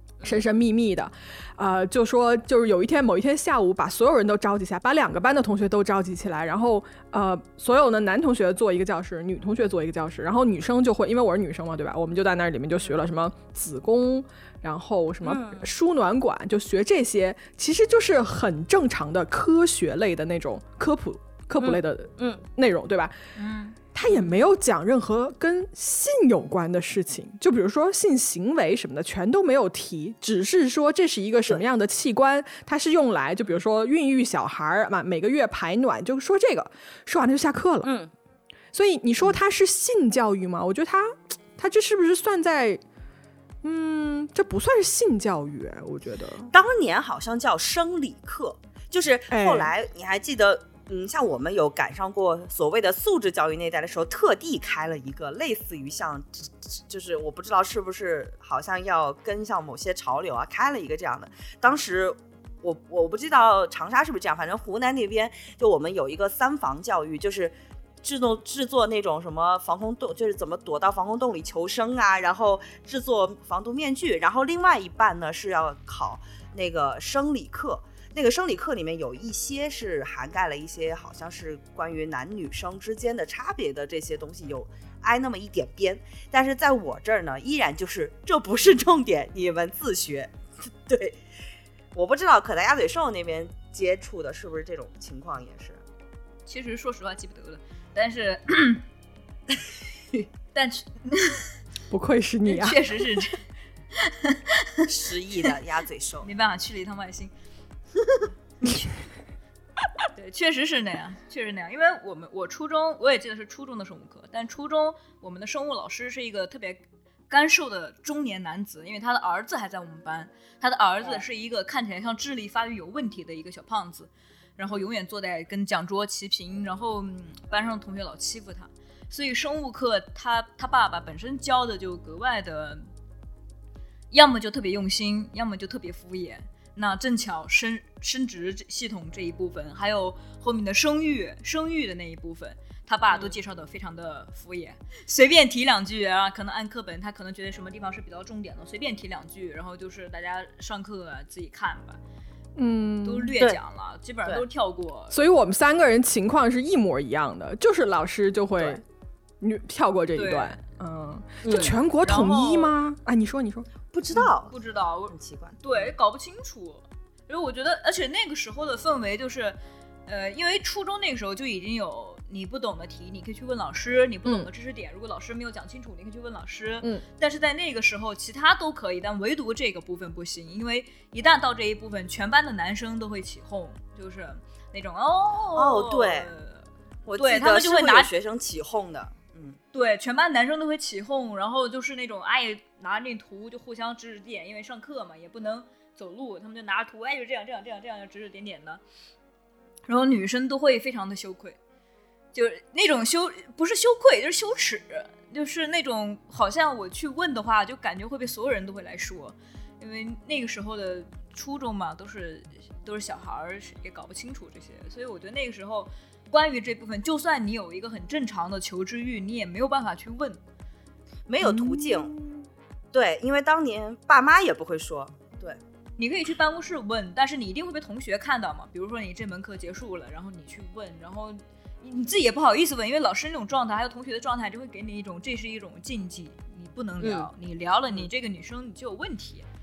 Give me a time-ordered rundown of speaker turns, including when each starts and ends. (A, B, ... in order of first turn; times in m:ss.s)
0:00.2-0:23.2 A
0:15.2-0:15.6 B
0:21.6-0:22.4 B
0:23.4-0:23.7 C
0:23.9-0:37.9 A
0:37.8-0:38.1 B
0:38.7-0:42.8 A
0:43.6-0:46.5 A
0:46.5-1:30.3 B
0:49.3-0:49.7 A
1:30.8-1:31.2 B
1:31.9-1:35.8 B
1:36.4-1:38.8 C
1:40.5-1:41.5 C
1:41.9-1:42.8 A
1:42.4-1:43.4 C
1:44.0-1:44.6 C
1:44.8-1:46.3 B
1:46.2-1:47.3 C
1:50.1-2:12.9 C
2:14.1-2:32.0 C
2:23.1-2:23.4 B
2:32.6-2:33.3 A
2:33.0-2:35.2 C
2:35.1-2:38.8 A
2:39.4-2:44.3 A
2:40.1-2:40.6 C
2:41.4-2:41.8 B
2:41.6-2:42.8 C
2:43.9-2:44.6 B
2:44.4-3:06.6 C
2:45.1-2:45.6 B
3:05.5-3:06.3 B
3:07.0-3:09.6 B
3:07.2-3:08.1 C
3:09.7-3:18.8 C
3:19.9-3:21.6 C
3:22.3-3:40.4 C
3:41.3-3:42.1 B
3:41.4-3:42.4 A
3:42.9-3:45.6 B
3:46.0-3:59.4 C
3:57.0-3:57.3 B